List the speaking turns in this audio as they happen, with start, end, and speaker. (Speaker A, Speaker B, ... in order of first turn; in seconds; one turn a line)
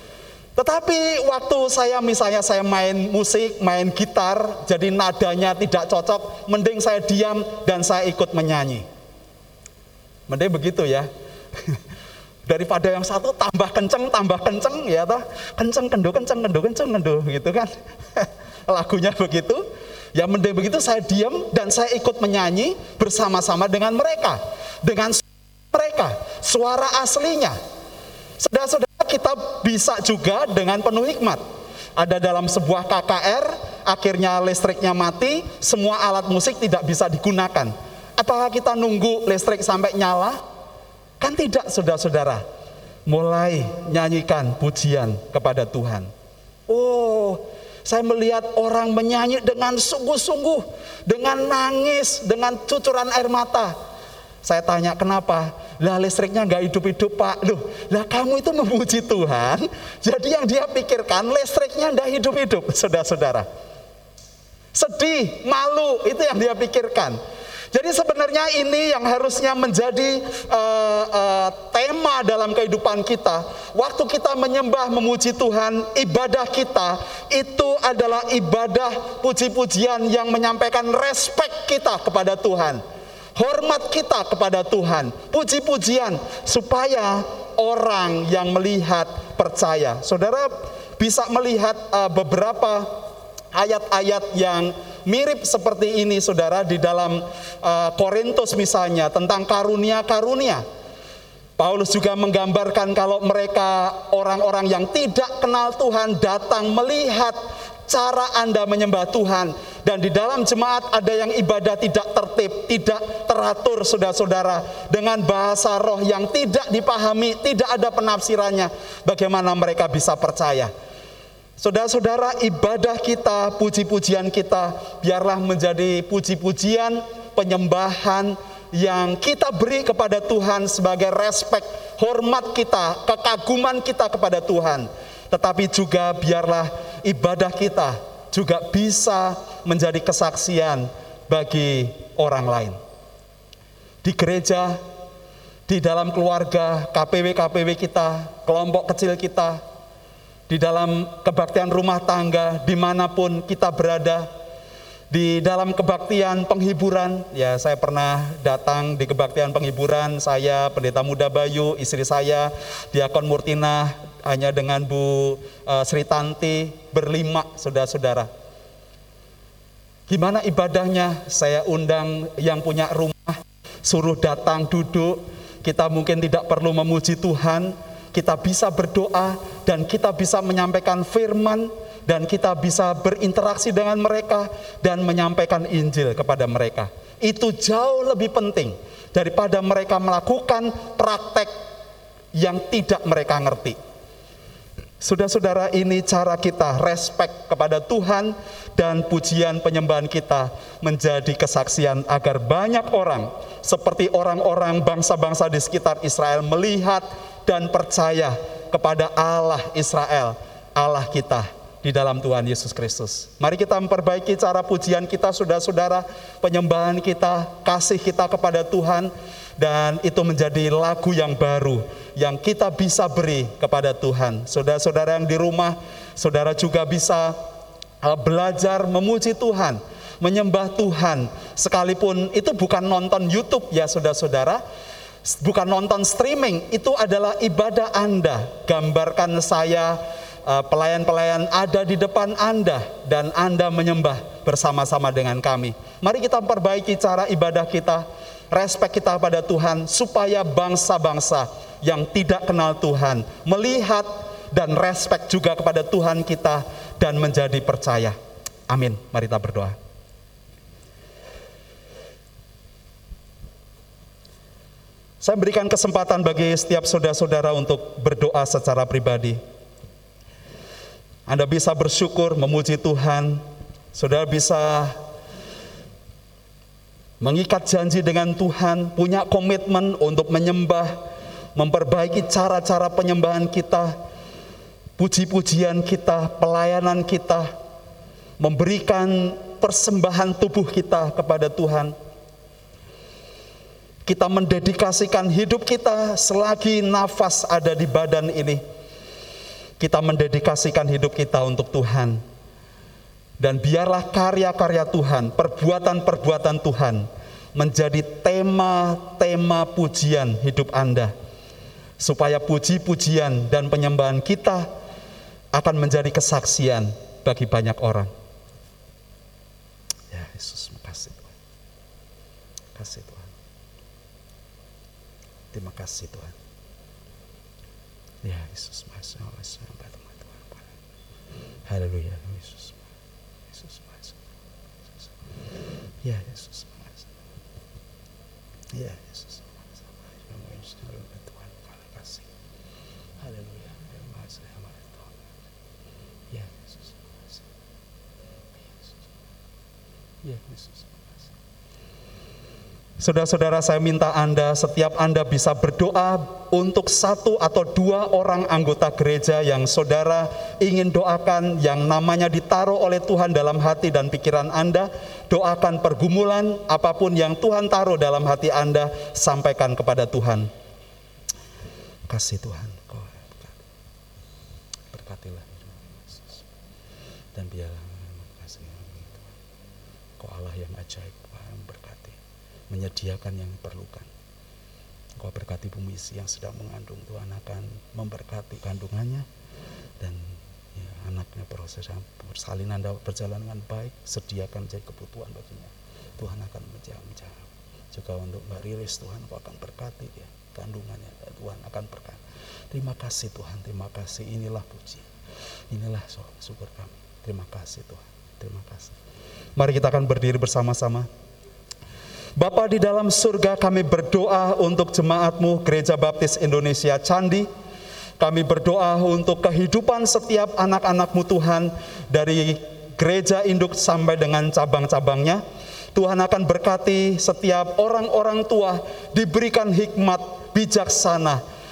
Speaker A: 0.6-8.8
Speaker A: 10.3-11.1
Speaker A: 12.5-19.6
Speaker A: 20.1-27.6
Speaker A: 28.4-31.4
Speaker A: 32.0-40.4
Speaker A: 41.2-42.4
Speaker A: 43.1-46.1
Speaker A: 46.7-53.7
Speaker A: 54.4-63.5
Speaker A: 64.7-67.2
Speaker A: 67.7-82.8
Speaker A: 83.4-92.9
Speaker A: 93.5-100.6
Speaker A: 101.6-120.7
Speaker A: 121.6-142.8
Speaker A: 144.0-144.8
Speaker A: 145.7-149.6
Speaker A: 150.5-154.3
Speaker A: 155.1-168.3
Speaker A: 170.1-191.5
Speaker A: 192.3-193.8
Speaker A: 195.0-227.4
Speaker A: 228.0-234.6
Speaker A: 235.3-258.2
Speaker A: 258.7-259.8
Speaker A: 265.2-269.4
Speaker A: 271.3-273.4
Speaker A: 273.9-275.0
Speaker A: 277.2-281.0
Speaker A: 281.6-283.9
Speaker A: 285.0-287.5
Speaker A: 288.4-291.9
Speaker A: 294.1-298.6
Speaker A: 299.8-302.2
Speaker A: 303.4-311.1
Speaker A: 312.0-314.7
Speaker A: 315.5-318.1
Speaker A: 320.1-321.3
Speaker A: 322.8-323.3
Speaker A: 325.5-326.4
Speaker A: 328.2-330.7
Speaker A: 331.7-332.8
Speaker A: 333.5-334.2
Speaker A: 336.0-337.1
Speaker A: 338.7-342.3
Speaker A: 343.2-345.2
Speaker A: 346.3-347.4
Speaker A: 350.2-351.3
Speaker A: 353.0-370.5
Speaker A: 372.1-373.6
Speaker A: 374.9-376.4
Speaker A: 377.4-379.3
Speaker A: 380.2-382.2
Speaker A: 382.7-384.1
Speaker A: 385.2-389.2
Speaker A: 390.0-405.1
Speaker A: 405.7-408.9
Speaker A: 409.6-411.1
Speaker A: 412.4-417.5
Speaker A: 418.2-425.4
Speaker A: 425.9-431.4